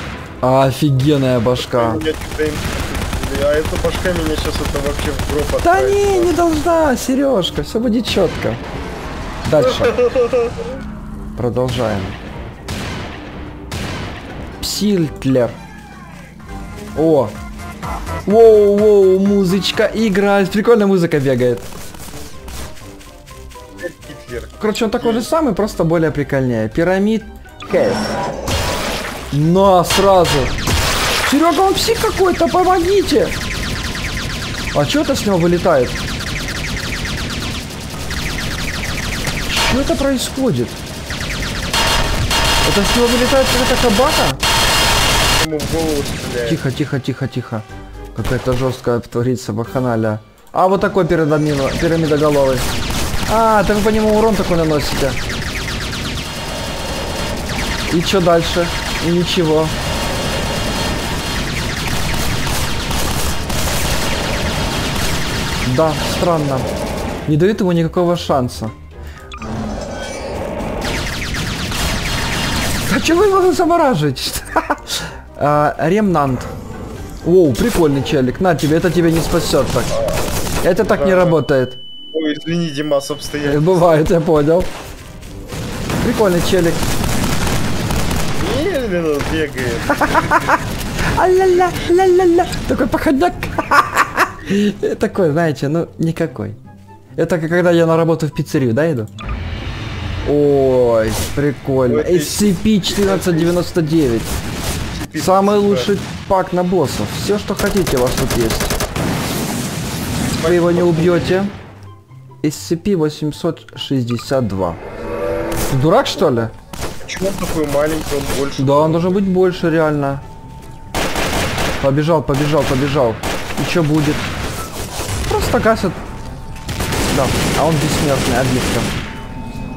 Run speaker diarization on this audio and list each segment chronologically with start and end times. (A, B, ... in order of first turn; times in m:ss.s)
0:00.4-0:02.0 A
0:01.6-0:06.3 B
0:05.6-0:08.6 A
0:09.4-0:10.0 A
0:09.6-0:10.7 B
0:11.4-0:12.2 A
0:14.6-0:15.6 A
0:17.0-0:17.4 A
0:18.3-0:21.7 A
0:23.8-0:25.3 B
0:24.6-0:28.1 A
0:29.3-0:30.5 A
0:31.2-0:33.4 A
0:34.7-0:36.0 A
0:39.5-0:40.8 A
0:42.6-0:44.4 A
0:45.3-0:46.6 B
0:46.4-0:52.7 A
0:53.3-0:55.2 A
0:57.9-0:59.8 A
1:05.6-1:06.7 A
1:07.3-1:08.7 A
1:12.9-1:16.5 A
1:17.2-1:19.9 A
1:19.9-1:21.4 B
1:20.6-1:21.8 A
1:22.1-1:24.0 B
1:23.4-1:24.7 A
1:26.0-1:26.8 A
1:28.4-1:30.6 B
1:29.9-1:30.6 A
1:31.1-1:36.6 A
1:37.2-1:39.1 A
1:40.2-1:44.3 A
1:41.9-1:43.6 B
1:44.9-1:45.9 B
1:45.2-1:48.8 A
1:50.4-1:51.5 B
1:50.4-1:51.5 A
1:52.4-1:54.8 A
1:55.7-1:56.5 A
1:57.0-1:59.2 B
1:58.6-2:00.2 A
2:01.8-2:04.3 A
2:05.3-2:06.0 A
2:07.1-2:08.9 A